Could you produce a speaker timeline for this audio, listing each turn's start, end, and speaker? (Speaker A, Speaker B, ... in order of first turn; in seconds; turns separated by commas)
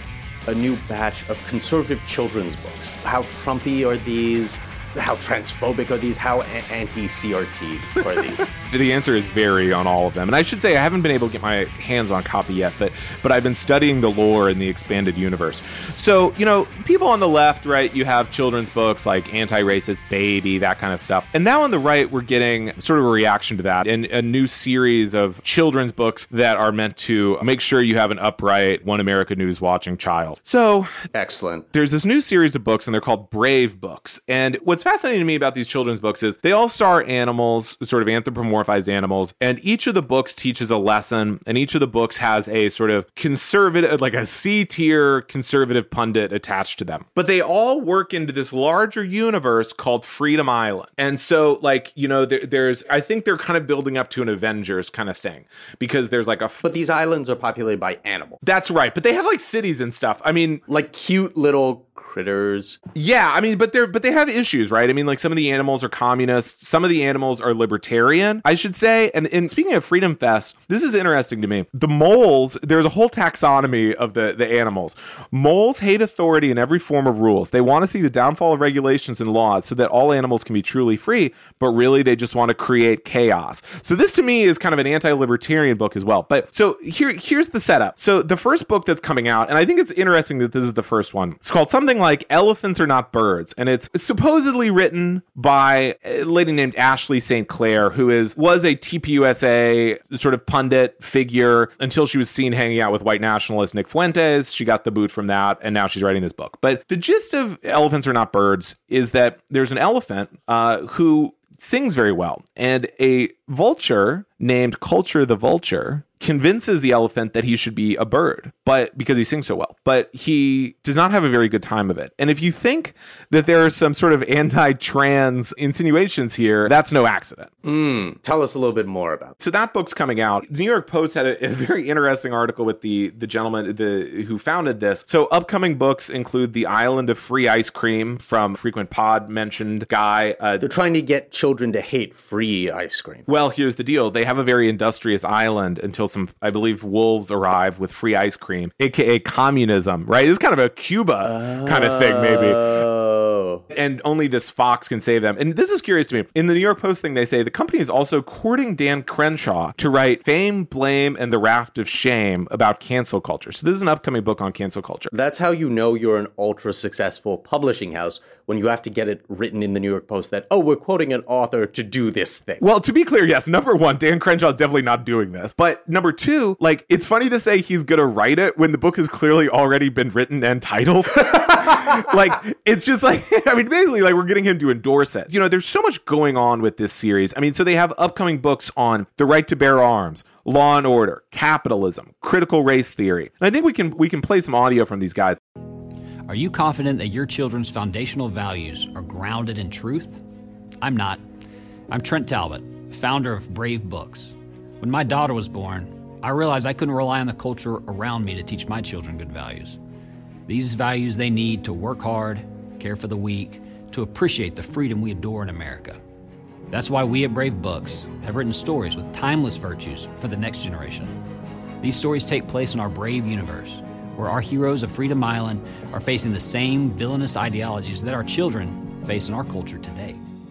Speaker A: 0.5-8.4, Speaker B: 8.4-30.9, Speaker A: 31.1-31.6, Speaker B: 31.7-56.6, Speaker A: 56.6-58.4, Speaker B: 58.4-60.6, Speaker A: 60.7-62.8, Speaker B: 62.9-127.5, Speaker A: 127.6-129.3, Speaker B: 129.4-140.6, Speaker A: 140.6-143.2, Speaker B: 143.3-152.8, Speaker A: 151.2-153.6, Speaker B: 153.7-165.1, Speaker A: 165.1-172.7, Speaker B: 172.6-195.4, Speaker C: 196.3-200.2, Speaker C: 200.8-201.2, Speaker C: 201.9-209.8, Speaker C: 210.5-216.0, Speaker C: 216.7-221.2, Speaker C: 221.8-230.2